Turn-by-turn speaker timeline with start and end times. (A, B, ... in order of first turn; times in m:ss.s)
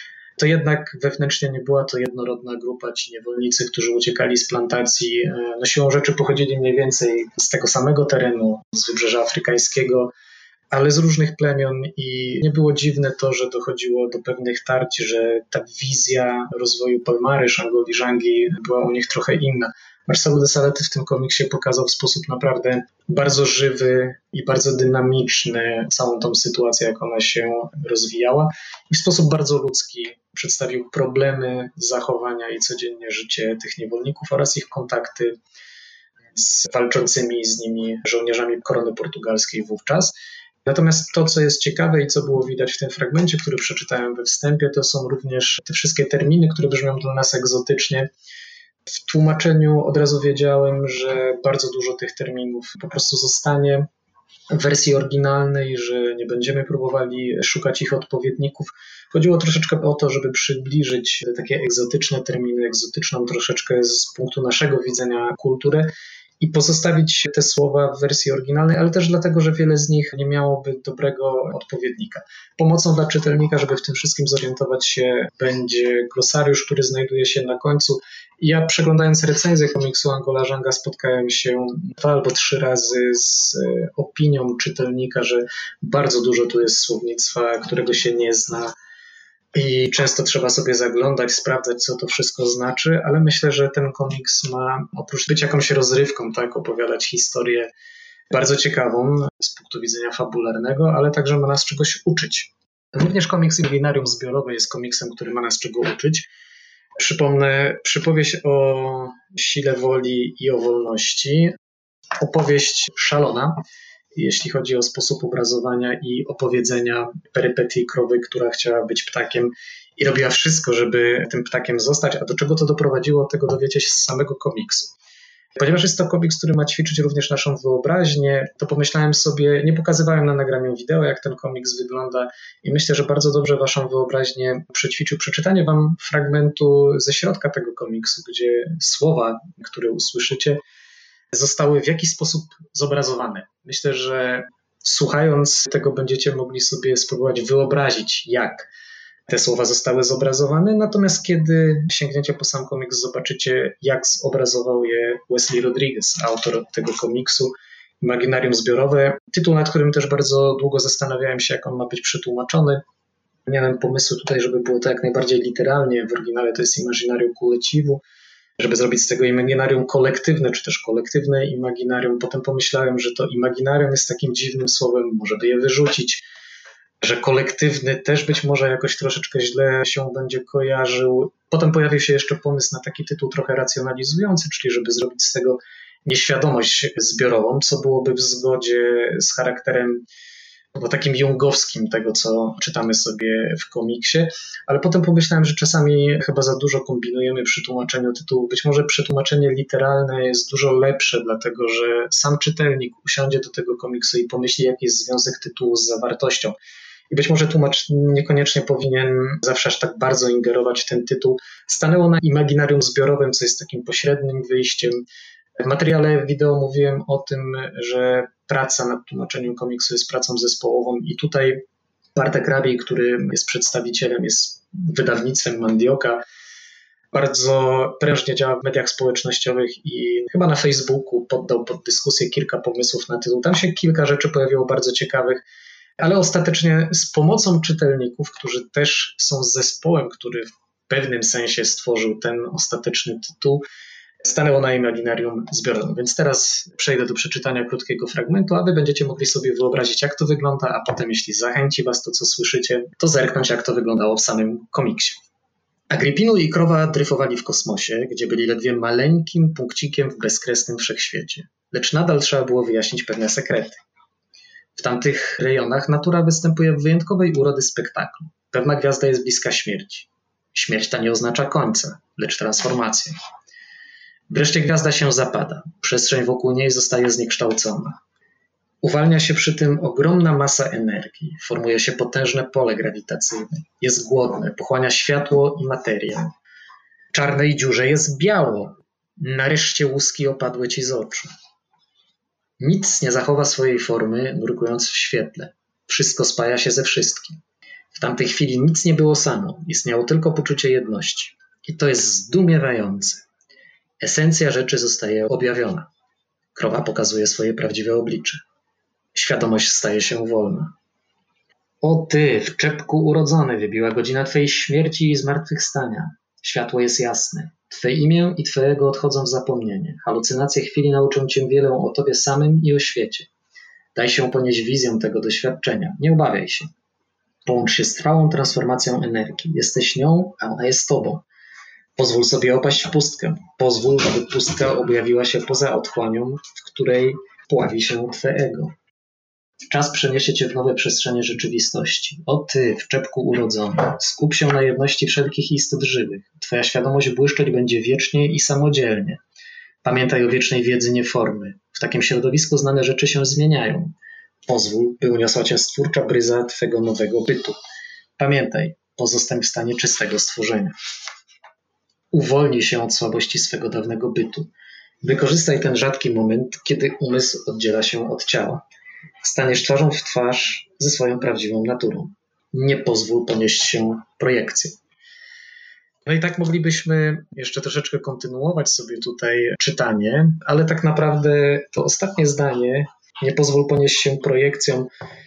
0:00.4-0:10.1 A
0:10.7-0:35.4 A
0:36.4-0:40.1 A
0:40.6-0:48.1 A
0:49.0-0:53.9 A
0:54.5-1:28.7 A
1:29.5-1:37.7 A
1:38.3-1:46.3 A
1:47.0-1:51.5 A
1:52.2-1:53.6 A
1:54.2-2:05.0 A
2:05.6-2:20.6 A
2:21.3-2:28.7 A
2:29.3-2:42.8 A
2:43.5-2:48.0 A
2:48.6-2:56.2 A
2:57.0-3:10.0 A
3:10.8-3:26.6 A
3:27.1-3:35.0 A
3:35.6-3:41.6 A
3:42.2-3:46.2 A
3:47.1-3:55.4 A
3:56.0-4:03.6 A
4:04.2-4:15.2 A
4:15.9-4:23.8 A
4:24.8-4:33.2 A
4:34.3-4:38.0 A
4:38.8-4:46.3 A
4:47.1-4:51.3 A
4:52.6-4:57.4 A
4:57.9-5:03.2 A
5:04.0-5:05.9 A
5:06.6-5:08.4 A
5:09.1-5:10.7 A
5:11.8-5:23.3 A
5:23.9-5:26.7 A
5:27.4-5:31.2 A
5:32.0-5:38.7 A
5:39.7-5:49.2 A
5:49.8-5:53.9 A
5:54.5-5:57.6 A
5:58.2-6:00.7 A
6:02.1-6:04.5 A
6:05.0-6:08.6 A
6:09.2-6:14.8 A
6:16.0-6:24.9 A